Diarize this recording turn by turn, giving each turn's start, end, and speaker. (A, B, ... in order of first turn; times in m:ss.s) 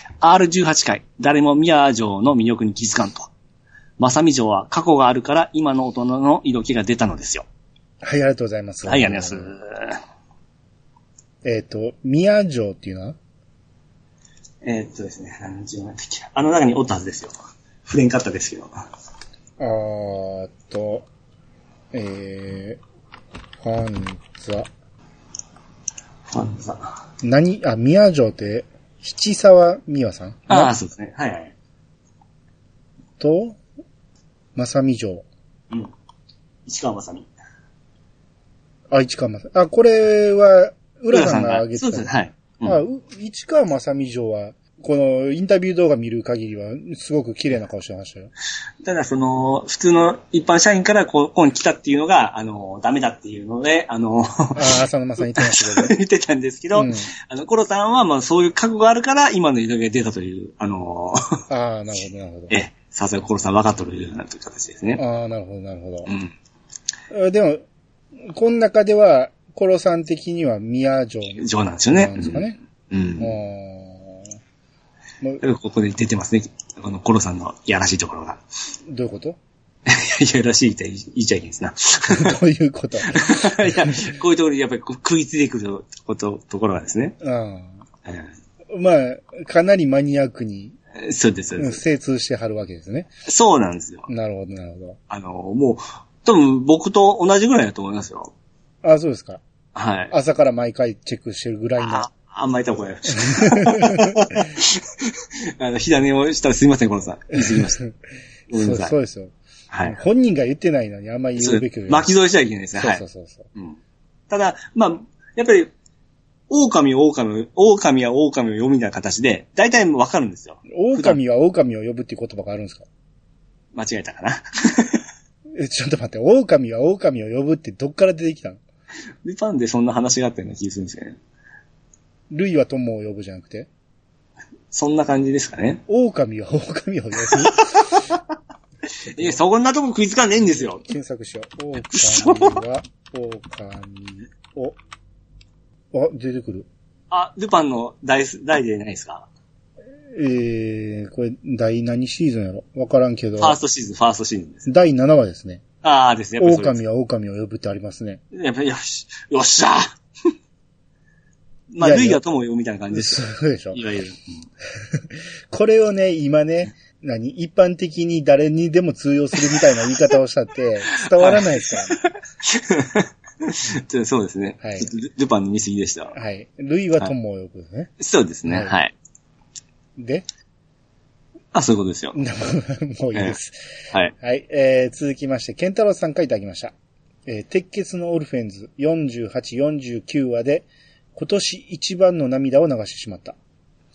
0:00.2-0:03.3 A
0:04.0-0:07.4 A
0:08.0-0:09.5 B
0:08.8-0:10.0 A
0:11.4-0:13.2 B
0:14.6-0:17.3 A
0:17.8-0:18.8 A
0:19.6-0:21.1 B
0:21.9-0:22.8 B
0:23.6-0:24.7 B
0:26.3-0:26.9 A
0:27.2-0:30.7 B
0:30.5-0:31.5 A
0:33.2-0:33.6 B
0:34.5-0:35.2 B
0:36.6-0:37.3 A
0:38.9-0:42.1 B
0:41.1-0:42.8 A
0:42.6-0:48.3 B
0:48.8-1:01.3 A
0:54.5-0:55.9 B
0:56.7-0:57.1 B
1:01.5-1:02.5 B
1:02.5-1:05.0 A
1:05.0-1:06.1 B
1:06.0-1:06.3 A
1:07.1-1:07.6 B
1:08.3-1:12.6 B
1:11.4-1:13.4 A
1:13.2-1:14.3 B
1:15.4-1:18.4 A
1:18.9-1:19.4 B
1:19.8-1:22.4 A
1:22.1-1:24.1 B
1:23.1-1:27.2 A
1:27.2-1:27.8 B
1:28.7-1:30.8 B
1:30.9-1:31.8 A
1:31.6-1:33.1 B
1:33.2-1:34.1 A
1:34.1-1:35.0 B
1:35.1-1:38.3 A
1:38.8-1:39.4 B
1:39.7-1:40.1 A
1:40.1-1:42.1 B
1:41.8-1:47.8 A
1:43.2-1:44.4 B
1:47.3-1:47.9 B
1:48.5-1:48.9 A
1:48.6-1:52.1 B
1:49.7-1:50.0 A
1:51.4-1:53.0 A
1:52.8-1:53.5 B
1:54.3-1:55.7 A
1:56.5-2:01.2 A
2:00.7-2:02.8 B
2:03.7-2:05.0 A
2:05.6-2:08.6 B
2:09.2-2:11.2 A
2:12.3-2:13.7 B
2:14.7-2:15.8 A
2:15.9-2:18.0 B
2:17.3-2:18.2 A
2:19.1-2:20.8 A
2:20.5-2:24.8 B
2:21.9-2:22.6 A
2:25.9-2:26.7 B
2:27.1-2:29.3 A
2:30.1-2:33.6 B
2:33.4-2:34.7 A
2:34.6-2:35.6 B
2:35.8-2:36.8 A
2:36.4-2:38.2 B
2:38.3-2:40.0 A
2:41.7-2:44.3 A
2:41.8-2:42.2 B
2:42.9-2:43.8 B
2:44.9-2:52.0 B
2:51.1-2:56.1 A
2:54.6-2:54.9 B
2:56.1-2:57.9 B
2:58.0-2:58.9 A
2:58.5-2:58.7 B
3:00.0-3:00.2 B
3:01.5-3:02.2 A
3:02.1-3:03.5 B
3:04.2-3:06.7 B
3:07.3-3:13.4 B